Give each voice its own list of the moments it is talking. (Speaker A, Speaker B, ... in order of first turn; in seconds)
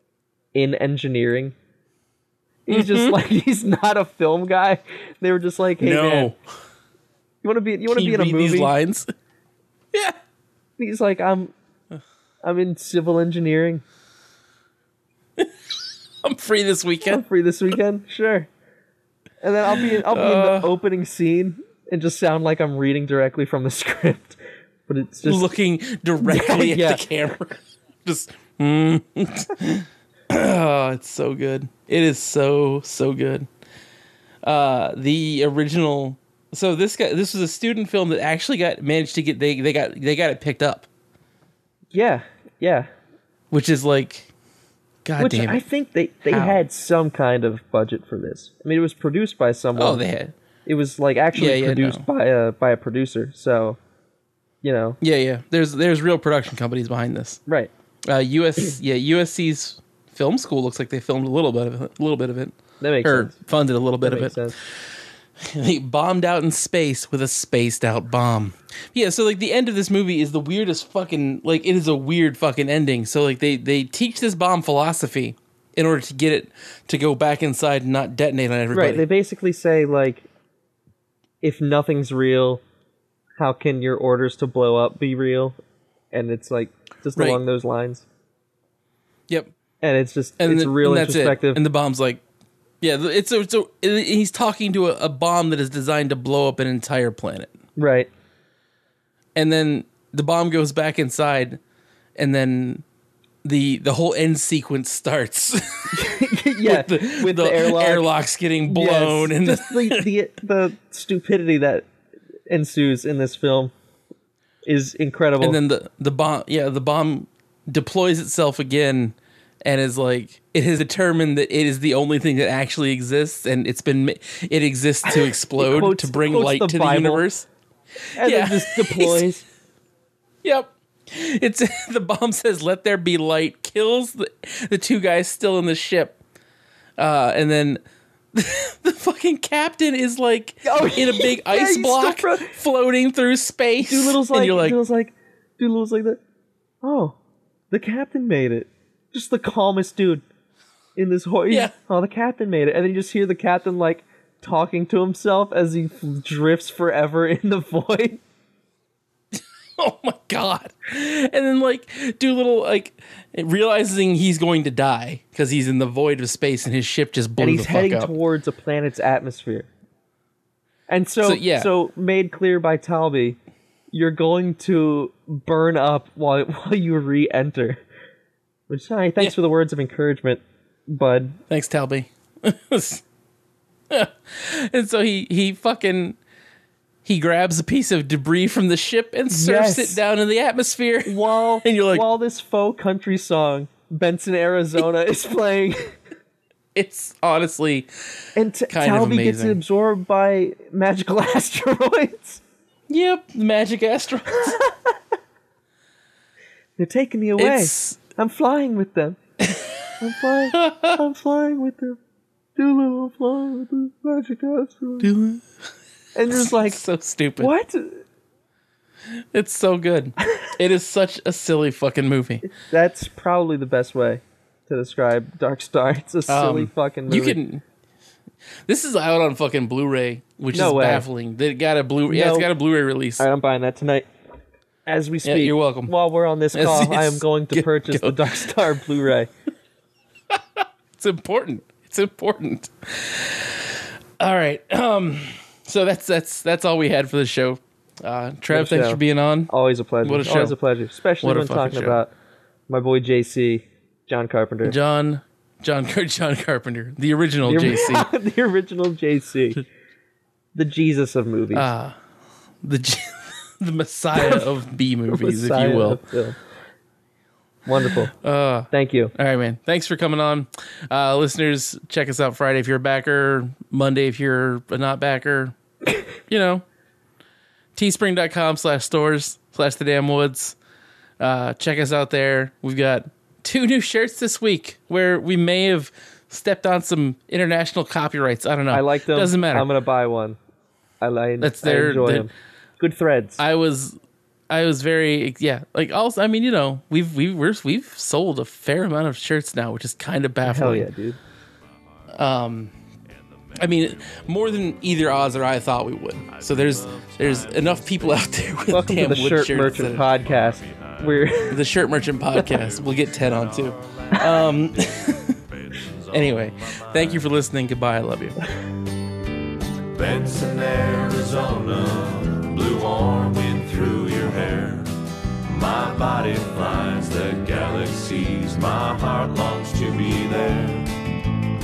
Speaker A: 0.5-1.5, 2.7-6.3, 7.4-8.7, 10.8-11.5, 12.4-13.8, 17.1-18.5, 19.4-25.5, 26.2-27.3, 41.9-42.9, 45.2-50.0, 50.7-53.8, 54.6-55.0, 62.8-63.4, 64.0-64.5, 78.7-80.2, 81.4-82.6, 83.4-85.6, 86.1-88.0, 89.8-91.6, 97.8-98.1, 105.9-108.1, 108.7-111.9, 112.5-113.7, 114.7-115.6, 125.1-127.3, 128.2-129.4, 140.7-142.6, 143.8-146.2, 146.8-147.2, 147.7-150.2, 151.0-158.2, 167.4-169.7, 170.9-173.4, 173.9-177.8, 178.7-181.4, 189.3-190.0, 191.1-196.0, 198.4-202.4, 204.3-204.9, 206.8-209.2, 210.0-212.0, 212.6-215.1, 216.2-216.8, 217.4-218.0, 222.5-227.4, 230.5-231.1, 232.1-232.5, 233.2-234.1, 234.9-239.3, 248.5-252.1, 252.7-254.8, 257.4-259.6, 260.6-261.7, 264.1-264.5, 265.1-266.4, 267.7-268.1, 268.7-269.1, 288.7-290.4, 291.0-293.4, 300.4-301.2, 308.7-311.6
Speaker B: 2.7-3.2, 5.8-6.4, 7.9-9.1, 16.2-17.2, 19.7-20.8, 25.2-33.5, 34.4-40.9, 43.5-44.3, 45.0-45.6, 46.3-46.6, 49.8-50.3, 51.3-52.0, 55.0-57.4, 58.1-64.4, 65.4-79.0, 87.2-87.4, 90.4-92.2, 92.8-97.5, 99.3-101.6, 102.2-102.8, 103.4-106.1, 106.6-110.1, 115.4-127.5, 128.2-129.3, 130.4-136.2, 137.0-137.8, 138.3-144.8, 151.5-151.7, 159.3-168.1, 171.2-171.7, 181.5-183.0, 183.9-186.2, 187.1-192.1, 196.8-197.9, 198.7-199.6, 202.9-204.6, 207.4-208.0, 209.4-209.7, 210.5-211.0, 215.0-215.5, 216.3-217.5, 219.1-222.4, 226.3-227.6, 228.7-233.2, 235.2-235.9, 236.5-238.9, 240.3-249.5, 250.0-250.6, 251.2-252.0, 254.6-258.1, 261.5-262.0, 262.6-266.0, 267.8-275.6, 276.3-276.6, 277.8-280.6, 281.2-289.7, 291.4-292.3, 293.4-294.0, 294.5-300.9, 302.1-302.7, 303.6-310.1, 311.5-315.4, 316.1-318.4
Speaker C: 303.1-305.5, 306.2-308.6, 309.8-317.3, 319.9-324.9, 325.4-331.1